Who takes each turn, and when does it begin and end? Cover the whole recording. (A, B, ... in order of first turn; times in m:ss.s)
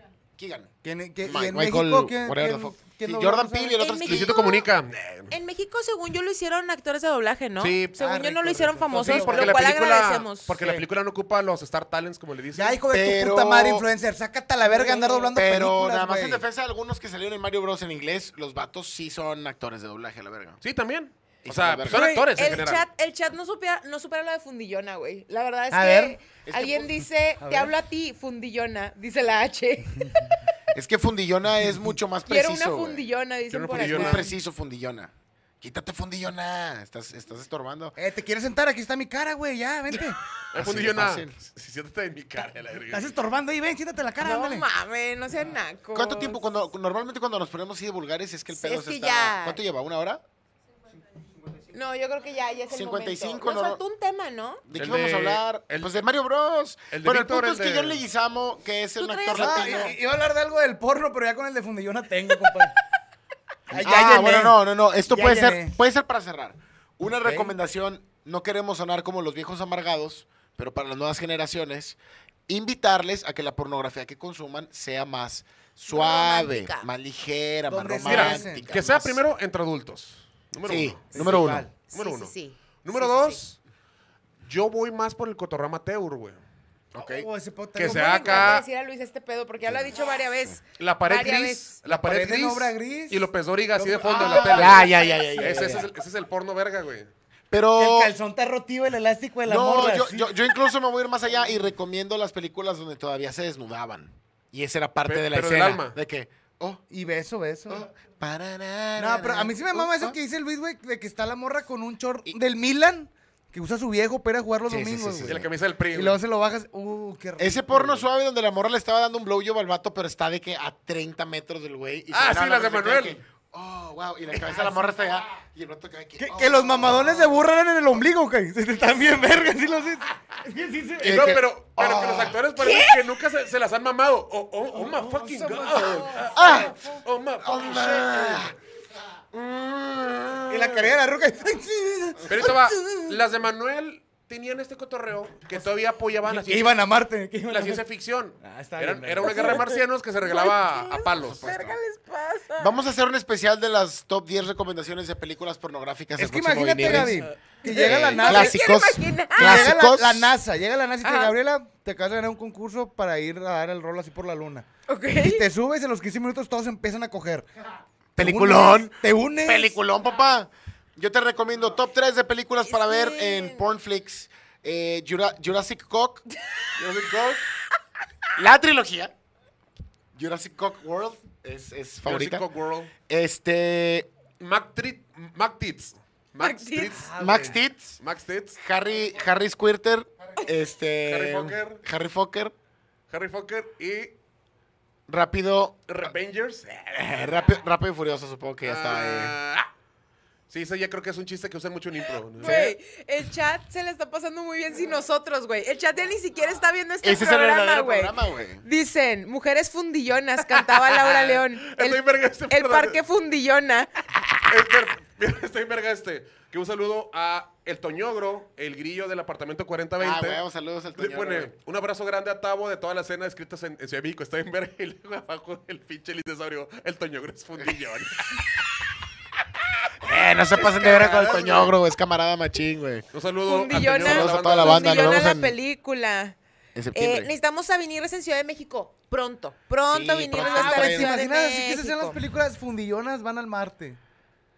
0:00.4-0:00.7 A
0:00.8-0:03.8 B
0:01.2-0:04.3 A
0:03.8-0:04.7 C
0:04.0-0:05.4 D
0:05.3-0:10.6 C
0:07.6-0:07.9 D
0:08.0-0:09.8 B
0:08.9-0:12.8 D
0:10.6-0:10.8 B
0:12.6-0:16.4 B
0:12.9-0:13.9 A
0:14.7-0:15.3 C
0:15.3-0:20.6 A
0:20.6-0:22.8 D
0:21.4-0:22.1 A
0:21.9-0:30.3 C
0:25.7-0:26.2 B
0:26.4-0:27.0 A
0:27.4-0:27.7 B
0:30.7-0:33.0 A
0:31.6-0:31.9 B
0:32.3-0:34.4 C
0:33.5-0:34.3 D
0:33.7-0:38.0 A
0:38.0-0:40.2 B
0:40.5-0:43.2 D
0:40.5-0:41.4 A
0:42.9-0:44.7 B
0:44.2-0:46.4 C
0:45.9-0:50.2 A
0:48.5-0:49.6 C
0:51.7-0:54.6 C
0:52.7-0:53.8 A
0:54.7-1:00.0 A
0:54.7-0:56.0 D
0:56.9-0:58.0 D
0:59.0-1:00.0 C
0:59.4-1:02.7 B
1:03.7-1:04.6 B
1:03.7-1:19.2 A
1:05.1-1:05.8 B
1:07.2-1:07.5 B
1:15.9-1:16.9 C
1:17.7-1:18.7 B
1:18.0-1:23.6 D
1:20.6-1:21.6 A
1:21.1-1:21.7 B
1:21.9-1:23.4 C
1:24.4-1:26.4 D
1:26.9-1:27.2 A
1:27.1-1:28.5 B
1:27.8-1:28.6 D
1:27.8-1:31.8 C
1:29.6-1:30.6 A
1:30.8-1:37.1 D
1:31.8-1:35.8 B
1:34.1-1:35.9 A
1:37.5-1:38.1 A
1:37.8-1:40.3 B
1:39.4-1:46.8 A
1:45.0-1:46.0 D
1:46.9-1:47.9 B
1:47.7-1:50.2 A
1:49.0-1:55.4 B
1:54.7-1:55.5 A
1:55.2-1:56.2 D
1:55.9-1:58.0 B
1:57.4-2:07.4 A
2:02.1-2:03.2 D
2:06.2-2:11.4 B
2:11.0-2:18.5 D
2:11.0-2:12.5 A
2:14.8-2:17.0 B
2:15.6-2:16.6 C
2:16.3-2:16.8 A
2:17.4-2:18.5 A
2:19.3-2:21.0 A
2:20.5-2:23.1 B
2:22.3-2:26.8 D
2:26.4-2:27.8 B
2:27.5-2:31.5 D
2:28.4-2:29.7 B
2:29.2-2:32.8 C
2:31.0-2:31.8 A
2:32.6-2:40.3 A
2:36.2-2:38.6 B
2:36.8-2:39.8 C
2:39.4-2:47.5 B
2:41.0-2:41.4 C
2:44.9-2:45.4 C
2:48.2-2:56.2 A
2:48.2-2:49.8 B
2:52.7-2:53.6 C
2:56.8-2:57.4 D
2:58.4-2:59.1 A
3:00.2-3:02.4 A
3:02.0-3:02.9 D
3:03.1-3:04.1 A
3:04.4-3:08.6 D
3:06.4-3:07.1 C
3:06.9-3:07.6 B
3:07.2-3:08.0 A
3:08.6-3:12.5 A
3:11.1-3:11.8 D
3:13.1-3:14.2 D
3:15.1-3:16.1 A
3:15.9-3:17.4 D
3:17.0-3:19.4 A
3:18.6-3:19.7 D
3:20.5-3:22.8 D
3:22.4-3:34.1 C
3:27.0-3:28.6 A
3:30.4-3:33.0 D
3:34.5-3:40.4 D
3:40.0-3:41.5 A
3:41.0-3:48.5 D
3:50.0-3:53.0 A
3:50.6-3:51.7 D
3:53.1-3:55.3 D
3:53.4-3:56.4 C
3:54.0-3:55.6 A
3:56.8-3:57.3 A
3:56.9-4:02.2 C
3:59.9-4:01.2 A
4:00.4-4:04.0 B